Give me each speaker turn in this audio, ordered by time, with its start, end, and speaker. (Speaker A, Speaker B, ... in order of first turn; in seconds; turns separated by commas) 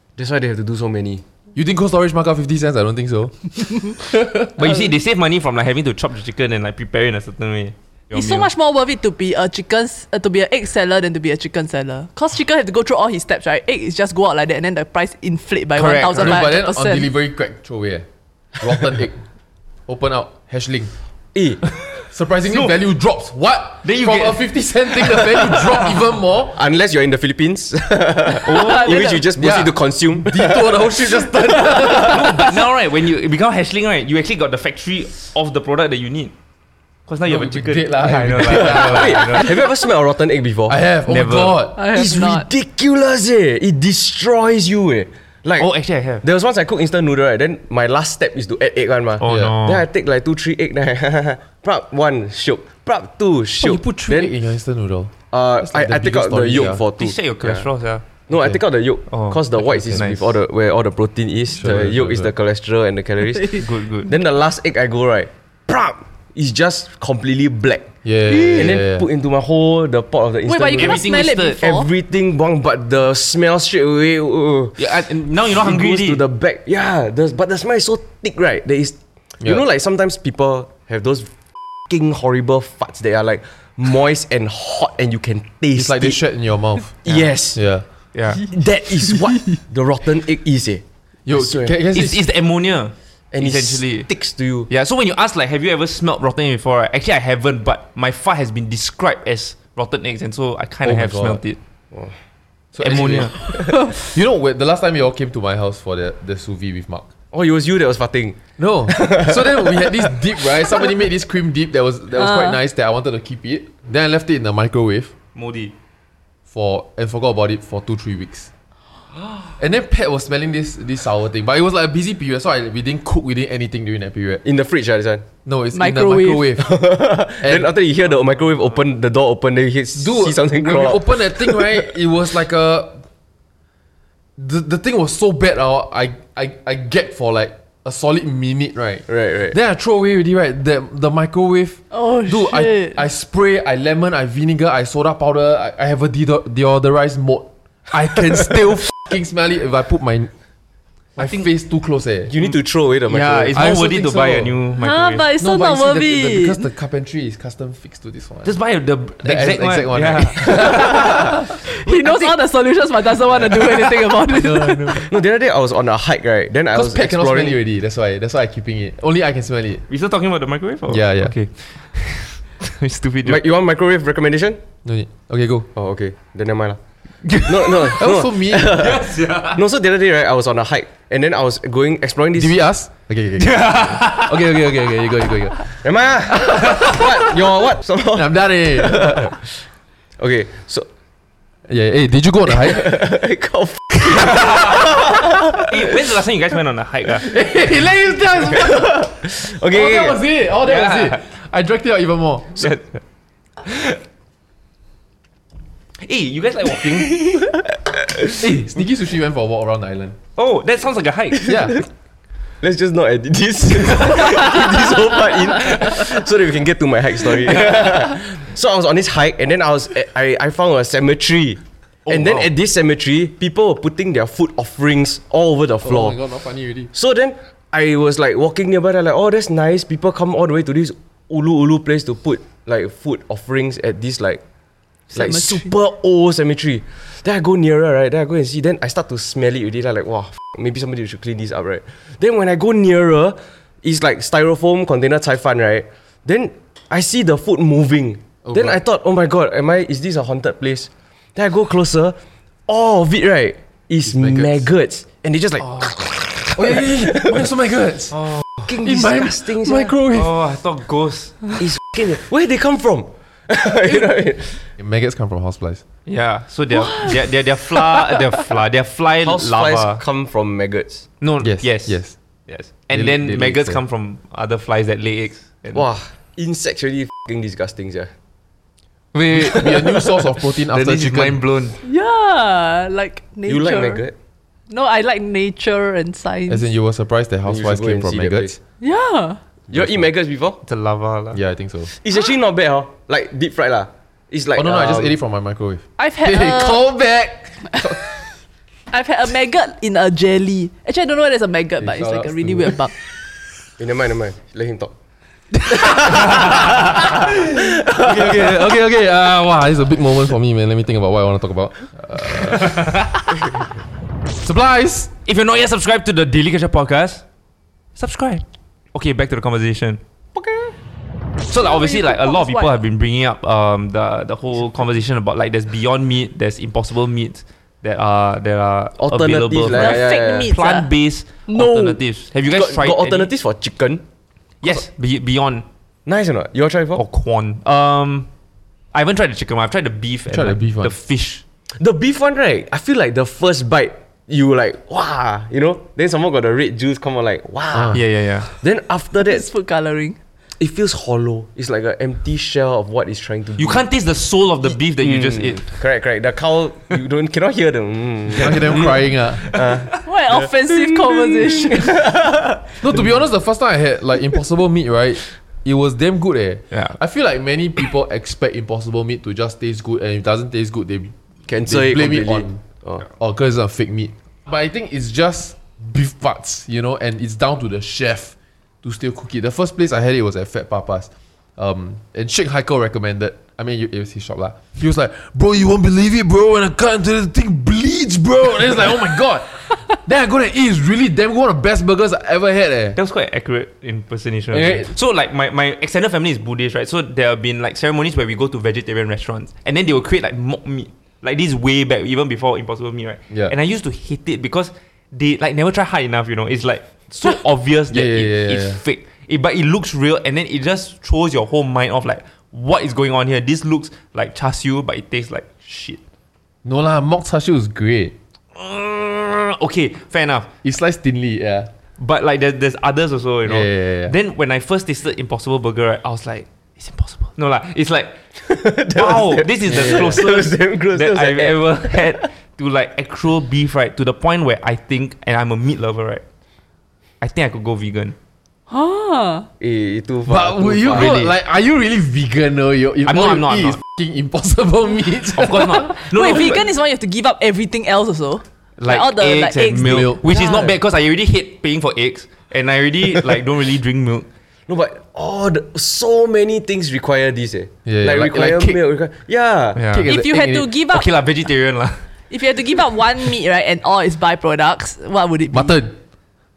Speaker A: 0.2-1.2, Speaker B: 1.6-4.5, Speaker C: 4.6-8.5, Speaker D: 8.1-17.1, Speaker C: 15.8-16.4, Speaker B: 16.2-18.1, Speaker B: 18.6-19.2, Speaker B: 19.9-20.9, Speaker A: 21.4-21.6, Speaker B: 21.9-26.6, Speaker C: 22.5-22.8, Speaker C: 23.8-25.9, Speaker A: 26.5-32.2, Speaker C: 28.4-29.2, Speaker D: 28.5-29.2, Speaker B: 29.4-32.5, Speaker C: 32.0-36.3, Speaker C: 37.1-39.6, Speaker B: 37.3-39.6, Speaker A: 38.4-40.8, Speaker B: 40.7-41.8, Speaker C: 41.1-41.6, Speaker D: 41.8-42.5, Speaker A: 41.9-45.7, Speaker C: 45.6-46.2, Speaker A: 46.2-54.3, Speaker C: 49.2-49.9, Speaker B: 49.2-49.5, Speaker B: 53.6-56.8, Speaker A: 55.3-57.7, Speaker C: 57.0-58.0, Speaker A: 58.3-71.1, Speaker B: 58.3-58.6, Speaker C: 59.1-60.4, Speaker B: 61.5-62.3, Speaker C: 63.5-64.1, Speaker B: 68.0-69.1, Speaker D: 70.5-71.9, Speaker C: 70.8-71.6, Speaker A: 71.6-74.8, Speaker C: 74.8-76.2, Speaker A: 75.5-81.3, Speaker A: 81.9-86.2, Speaker B: 85.7-87.0, Speaker A: 87.0-87.6, Speaker C: 87.1-87.3, Speaker B: 87.5-87.8, Speaker C: 88.1-88.4, Speaker A: 88.4-91.7, Speaker B: 91.3-92.2, Speaker C: 91.9-94.1, Speaker A: 93.3-94.7, Speaker C: 94.7-101.6, Speaker B: 100.8-101.4, Speaker B: 102.7-107.1, Speaker C: 102.8-103.4, Speaker A: 107.3-108.4, Speaker B: 108.6-115.1, Speaker A: 108.9-110.1, Speaker D: 112.2-112.6, Speaker C: 115.3-115.7, Speaker B: 116.5-118.5, Speaker B: 119.6-124.4, Speaker A: 124.4-125.2, Speaker B: 125.5-126.8, Speaker D: 125.7-126.5, Speaker A: 126.6-131.9, Speaker B: 127.4-127.7, Speaker B: 129.9-133.0, Speaker B: 134.4-150.3, Speaker A: 139.1-139.6, Speaker D: 141.9-143.0, Speaker B: 151.2-152.3, Speaker C: 151.2-151.5, Speaker A: 152.3-153.8, Speaker C: 153.1-155.3, Speaker B: 153.5-154.6, Speaker D: 154.8-156.7, Speaker B: 155.4-158.6, Speaker C: 158.4-161.1, Speaker B: 159.2-161.4, Speaker D: 161.6-165.1, Speaker C: 161.8-162.3, Speaker B: 164.3-165.1, Speaker A: 165.1-167.6, Speaker B: 166.7-169.8, Speaker C: 169.9-173.4, Speaker B: 170.9-171.3, Speaker A: 173.2-174.6, Speaker B: 174.8-175.7, Speaker A: 175.8-176.8, Speaker C: 177.2-178.0, Speaker A: 177.4-182.5, Speaker B: 177.9-178.9, Speaker C: 178.8-179.6, Speaker B: 182.3-185.7, Speaker C: 183.4-184.3, Speaker A: 185.8-189.5, Speaker B: 186.3-187.3, Speaker B: 188.1-189.3, Speaker A: 190.2-190.9, Speaker B: 191.7-193.1, Speaker A: 192.5-195.7, Speaker B: 194.2-194.6, Speaker C: 194.4-194.8, Speaker C: 195.6-197.3, Speaker B: 197.2-202.7, Speaker A: 198.6-200.2, Speaker C: 200.6-201.2, Speaker C: 202.6-203.0, Speaker C: 203.7-204.0, Speaker C: 206.0-207.5, Speaker B: 208.3-210.2, Speaker C: 210.4-211.4, Speaker A: 211.4-211.8, Speaker B: 211.4-211.8, Speaker A: 212.6-226.2, Speaker C: 222.1-222.5, Speaker B: 225.8-226.9, Speaker A: 226.9-234.4, Speaker D: 235.1-235.7, Speaker A: 235.1-257.4, Speaker B: 248.4-248.8, Speaker B: 254.0-254.7, Speaker C: 255.6-255.9, Speaker B: 256.6-258.2, Speaker C: 258.1-258.7, Speaker A: 258.7-259.9, Speaker B: 258.8-260.4, Speaker C: 260.1-261.5, Speaker A: 261.6-264.6, Speaker B: 264.8-265.8, Speaker C: 266.1-270.0, Speaker D: 266.7-267.1, Speaker A: 269.2-271.1, Speaker C: 271.2-275.9, Speaker B: 271.4-272.2, Speaker B: 272.9-273.8, Speaker A: 275.7-278.1, Speaker C: 279.1-280.0, Speaker B: 279.3-281.4, Speaker C: 280.7-281.8, Speaker D: 281.8-284.0, Speaker A: 283.5-284.1, Speaker D: 284.7-286.6, Speaker B: 286.5-288.6, Speaker A: 287.5-288.6, Speaker D: 288.8-289.4, Speaker A: 289.7-290.6, Speaker B: 289.7-290.1, Speaker C: 290.6-291.4, Speaker B: 291.3-291.9, Speaker A: 291.9-295.1, Speaker B: 294.6-298.0, Speaker D: 296.0-296.9, Speaker D: 298.9-302.9, Speaker B: 301.8-302.9, Speaker A: 303.8-304.9, Speaker B: 305.7-313.2, Speaker C: 306.2-306.5, Speaker A: 307.0-308.6, Speaker C: 312.6-313.2, Speaker B: 314.4-315.1, Speaker C: 315.3-317.2, Speaker C: 318.0-320.0, Speaker A: 320.4-320.8, Speaker C: 321.5-333.3, Speaker D: 321.6-322.8, Speaker A: 329.0-330.5, Speaker D: 329.7-330.9, Speaker D: 331.5-332.0, Speaker A: 332.5-334.0, Speaker C: 334.6-335.6, Speaker A: 336.1-337.0, Speaker C: 336.9-338.3, Speaker C: 338.9-341.4, Speaker B: 340.3-340.9, Speaker A: 341.8-348.0, Speaker B: 347.7-348.0, Speaker C: 347.9-348.5, Speaker A: 348.6-349.5, Speaker D: 349.2-350.2, Speaker A: 350.6-353.9, Speaker C: 353.6-355.7, Speaker A: 354.7-362.8, Speaker B: 358.4-359.5, Speaker D: 360.1-362.0, Speaker B: 362.8-393.0, Speaker C: 366.7-367.0, Speaker A: 371.5-373.1, Speaker C: 393.0-416.0, Speaker B: 394.5-394.9, Speaker B: 407.9-408.8, Speaker B: 416.6-418.1, Speaker C: 418.6-420.5, Speaker B: 420.6-421.7, Speaker C: 422.0-428.2, Speaker B: 423.4-424.1, Speaker A: 428.4-432.2, Speaker C: 428.9-436.2, Speaker B: 429.8-430.1, Speaker C: 437.2-438.2, Speaker D: 438.7-439.5, Speaker A: 439.6-441.2, Speaker B: 440.3-445.9, Speaker C: 440.9-441.3, Speaker C: 443.1-443.8, Speaker C: 445.4-446.6, Speaker D: 445.9-450.3, Speaker C: 448.8-454.3, Speaker B: 449.8-450.7, Speaker A: 454.7-459.8, Speaker B: 457.9-458.8, Speaker C: 459.8-460.1, Speaker B: 459.9-460.7, Speaker D: 460.1-461.1, Speaker C: 460.9-462.0, Speaker D: 462.3-465.8, Speaker B: 465.5-466.0